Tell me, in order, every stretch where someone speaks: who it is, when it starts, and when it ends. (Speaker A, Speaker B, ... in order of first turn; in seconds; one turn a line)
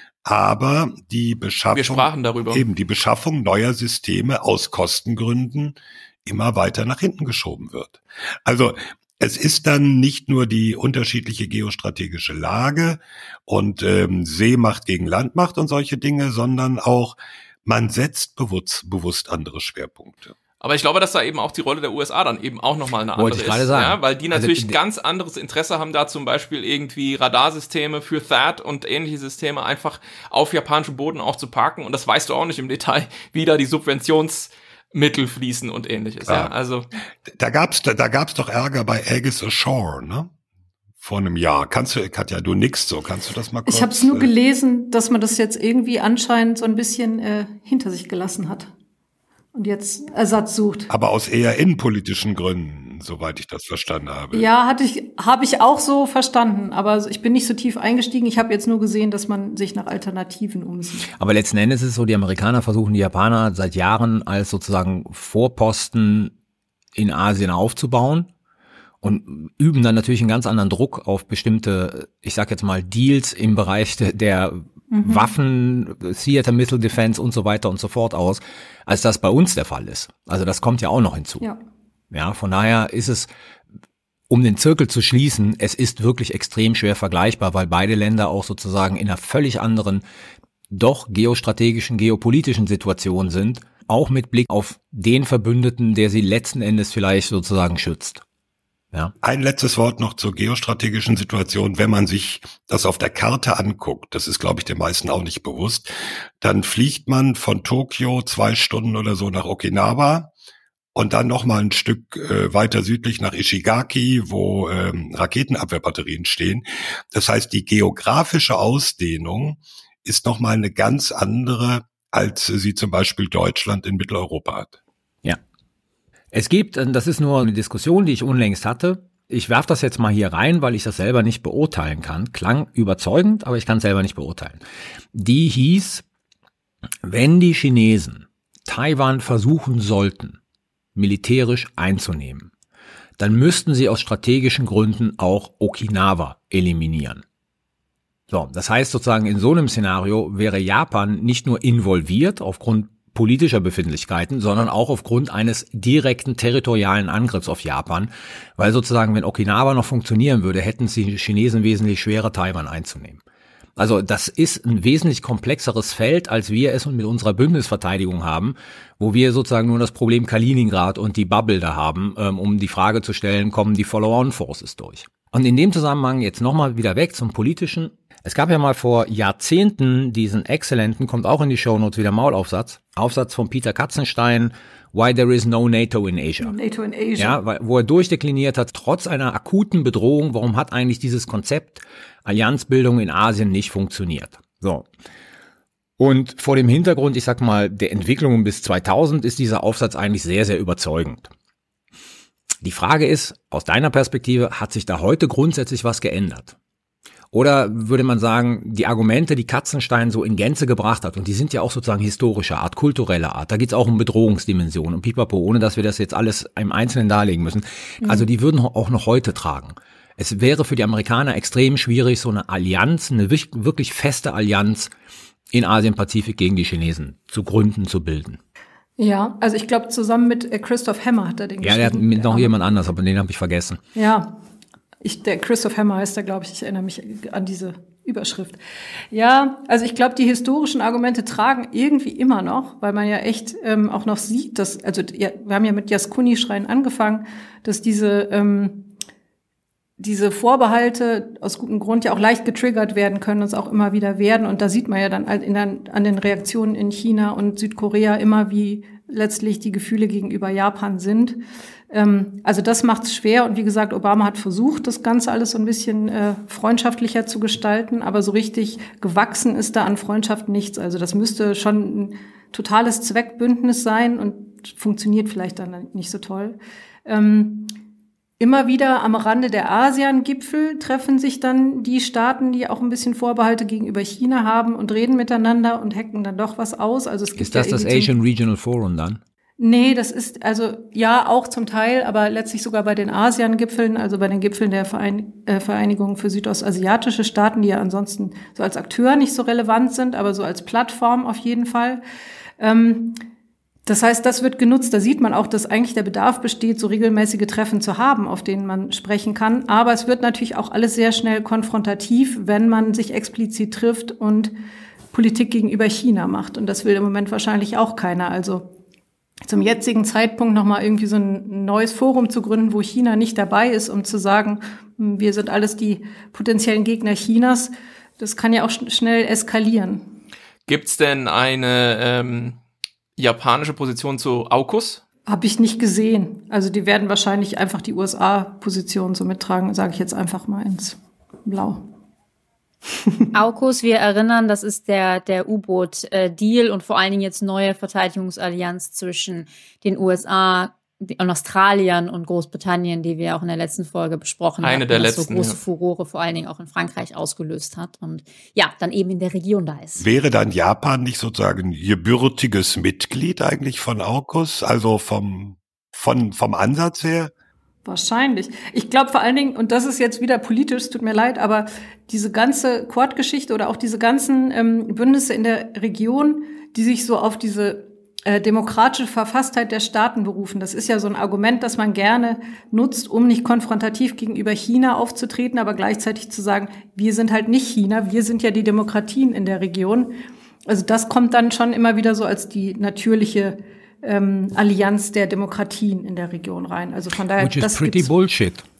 Speaker A: 0.2-20.3
Speaker B: 1.7-2.6
Speaker B: 20.6-36.9
Speaker C: 23.1-24.8
Speaker A: 36.2-36.5
Speaker A: 37.3-40.3
Speaker A: 41.0-44.3
Speaker D: 43.6-48.7
Speaker D: 49.5-50.9
Speaker A: 50.9-54.5
Speaker D: 54.3-61.1
Speaker C: 61.2-66.3
Speaker C: 66.9-68.3
Speaker C: 69.0-81.5
Speaker D: 74.9-75.3
Speaker C: 82.1-83.3
Speaker C: 84.3-90.0
Speaker C: 90.7-98.2
Speaker A: 99.2-110.3
Speaker A: 110.9-124.8
Speaker C: 126.3-134.6
Speaker C: 135.1-136.0
Speaker C: 137.0-140.4
Speaker C: 140.9-142.5
Speaker C: 143.2-147.2
Speaker C: 148.3-163.2
Speaker C: 163.8-186.6
Speaker D: 186.4-187.4
Speaker C: 187.2-194.9
Speaker C: 196.0-201.3
Speaker C: 202.6-206.5
Speaker C: 207.3-224.9
Speaker C: 225.5-228.4
Speaker D: 229.0-232.5
Speaker C: 231.6-233.8
Speaker D: 233.9-234.3
Speaker D: 235.0-238.6
Speaker D: 239.1-248.9
Speaker D: 250.0-261.4
Speaker D: 261.9-277.7
Speaker D: 278.4-288.1
Speaker C: 287.4-289.2
Speaker D: 289.6-302.0
Speaker D: 302.6-303.2
Speaker D: 303.9-314.5
Speaker D: 315.1-318.7
Speaker D: 319.4-330.1
Speaker B: 330.7-332.6
Speaker B: 333.2-335.0
Speaker D: 335.3-341.8
Speaker E: 343.3-360.0
Speaker B: 354.6-355.6
Speaker A: 360.0-367.3
Speaker D: 367.8-390.1
Speaker D: 390.7-398.1
Speaker C: 397.4-398.6